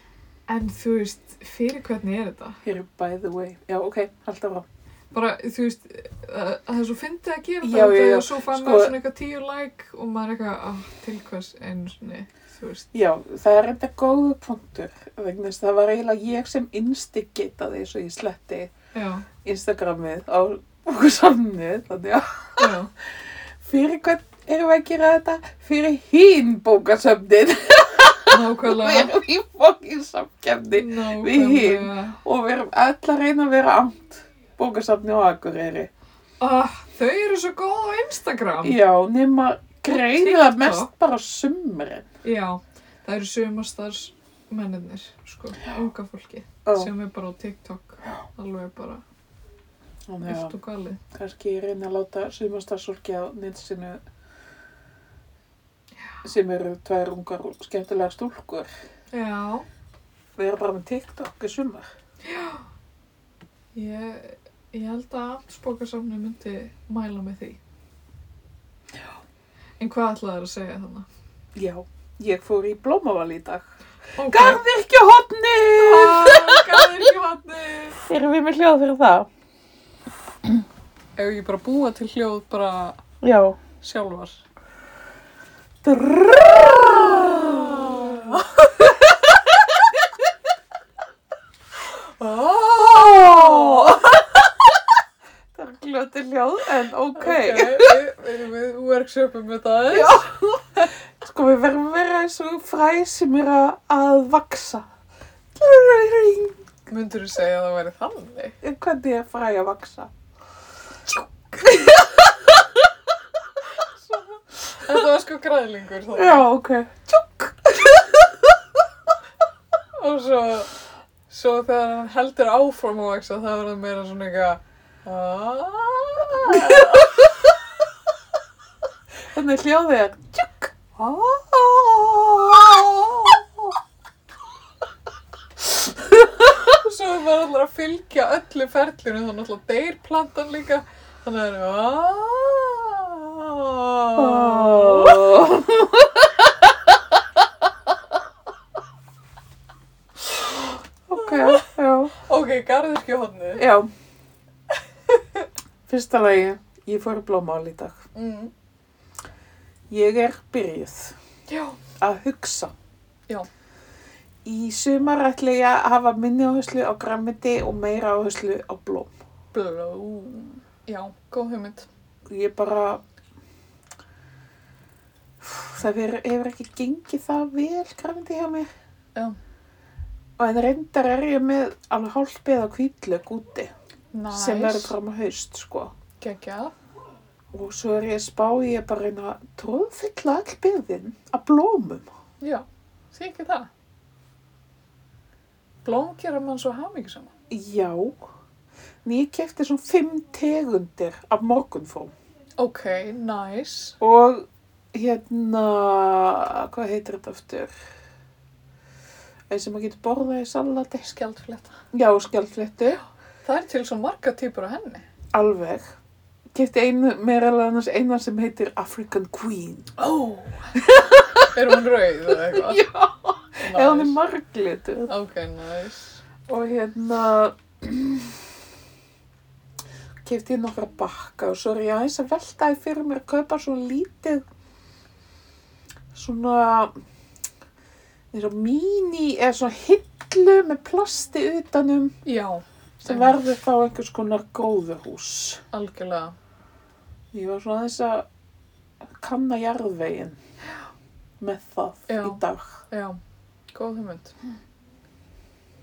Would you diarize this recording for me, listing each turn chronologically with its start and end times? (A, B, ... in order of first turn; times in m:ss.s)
0:00.5-0:02.6 A
0:02.6-0:04.7 B
0:05.1-0:12.9 A
0:07.6-0:09.0 B
0:12.9-0:18.7 B
0:18.9-0:19.3 A
0:19.4-0:22.8 B
0:22.6-0:22.9 A
0:23.6-0:35.9 B
0:28.3-0:29.1 A
0:30.7-0:32.2 A
0:36.4-0:38.8 A
0:38.6-0:42.0 B
0:39.9-0:40.9 A
0:42.2-0:49.0 A
0:46.6-0:46.9 B
0:50.1-0:50.6 B
0:50.2-0:51.0 A
0:51.1-0:54.0 B
0:56.2-0:58.7 B
0:59.1-0:59.7 A
1:00.4-1:01.9 B
1:02.2-1:02.7 A
1:03.7-1:07.6 A
1:09.8-1:11.1 A
1:11.6-1:13.7 B
1:14.2-1:14.6 A
1:14.3-1:17.1 B
1:15.7-1:18.0 A
1:18.0-1:19.3 B
1:21.2-1:23.0 A
1:23.2-1:23.6 B
1:23.8-1:24.4 A
1:25.8-1:30.1 B
1:27.8-1:28.4 A
1:32.2-1:34.0 A
1:32.7-1:34.8 B
1:35.5-1:38.0 B
1:37.1-1:40.2 A
1:39.9-1:44.9 B
1:45.6-1:46.7 B
1:46.9-1:48.6 A
1:48.6-1:50.1 B
1:51.5-1:52.7 B
1:54.1-1:56.4 A
1:56.1-1:58.6 B
2:00.0-2:00.7 A
2:01.3-2:07.2 A
2:06.5-2:07.0 B
2:09.3-2:13.8 B
2:16.0-2:16.6 B
2:16.7-2:25.3 A
2:24.1-2:27.2 B
2:31.1-2:32.1 B
2:31.1-2:33.7 A
2:33.6-2:33.9 B
2:35.1-2:35.4 A
2:35.9-2:38.0 B
2:38.1-2:38.5 A
2:39.9-2:41.2 B
2:41.5-2:41.8 A
2:42.0-2:42.7 B
2:44.4-2:49.1 B
2:49.5-2:51.9 A
2:52.3-2:53.0 B
2:55.4-2:58.7 B
3:00.4-3:03.7 B
3:04.1-3:04.9 A
3:04.3-3:05.9 B
3:06.2-3:06.7 A
3:07.5-3:12.1 B
3:12.4-3:13.7 A
3:15.8-3:17.3 A
3:17.5-3:18.3 B
3:19.0-3:22.1 B
3:22.6-3:24.0 A
3:24.0-3:27.7 B
3:29.5-3:31.1 B
3:31.0-3:31.8 A
3:31.9-3:33.0 B
3:33.4-3:35.0 A
3:35.3-3:35.9 B
3:36.5-3:40.0 B
3:40.0-3:40.7 A
3:40.7-3:41.6 B
3:41.5-3:42.9 A
3:42.3-3:45.1 B
3:43.6-3:44.2 A
3:45.1-3:46.2 A
3:46.5-3:48.5 B
3:50.2-3:54.4 B
3:56.1-3:56.9 B
3:58.3-4:02.2 B
4:02.2-4:03.4 A
4:03.0-4:05.6 B
4:05.7-4:06.4 A
4:07.3-4:08.3 B
4:09.1-4:10.4 B
4:11.4-4:12.8 B
4:12.1-4:13.2 A
4:13.7-4:14.4 A